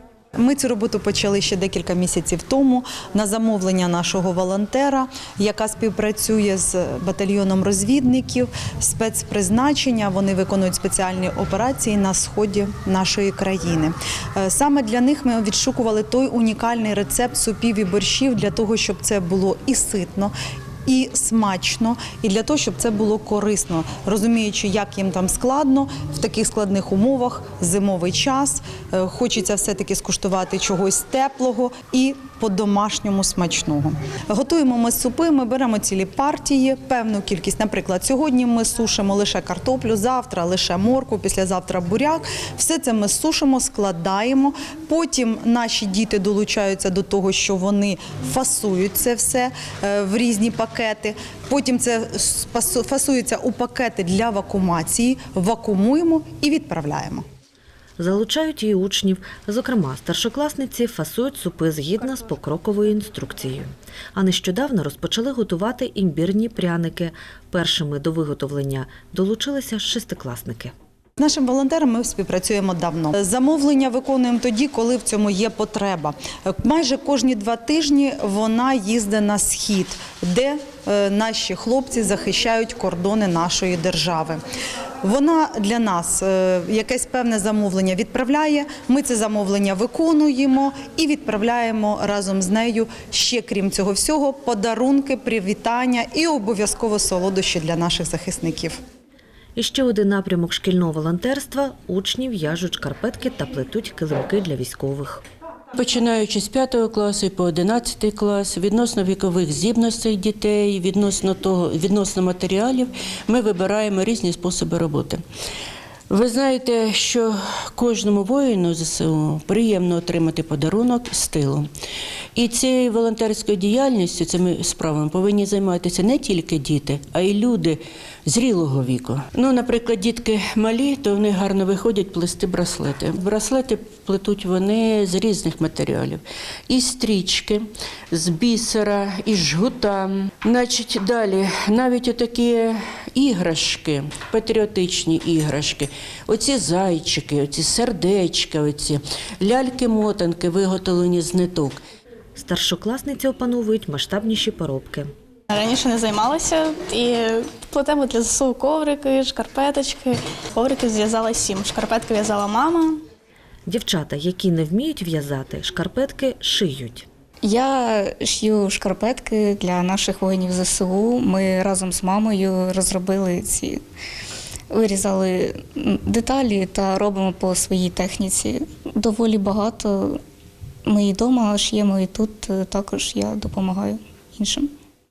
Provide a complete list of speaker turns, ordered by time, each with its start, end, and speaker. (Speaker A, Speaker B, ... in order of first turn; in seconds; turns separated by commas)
Speaker A: 0.4-20.3, Speaker A: 20.9-57.2, Speaker B: 58.0-70.7, Speaker A: 71.2-84.4, Speaker A: 85.0-98.8, Speaker B: 99.5-105.2, Speaker C: 105.7-115.2, Speaker C: 116.1-121.7, Speaker C: 122.3-151.8, Speaker B: 152.3-155.1, Speaker D: 155.5-163.0, Speaker B: 163.7-167.1, Speaker E: 167.4-173.8, Speaker E: 174.7-180.2, Speaker E: 180.8-184.7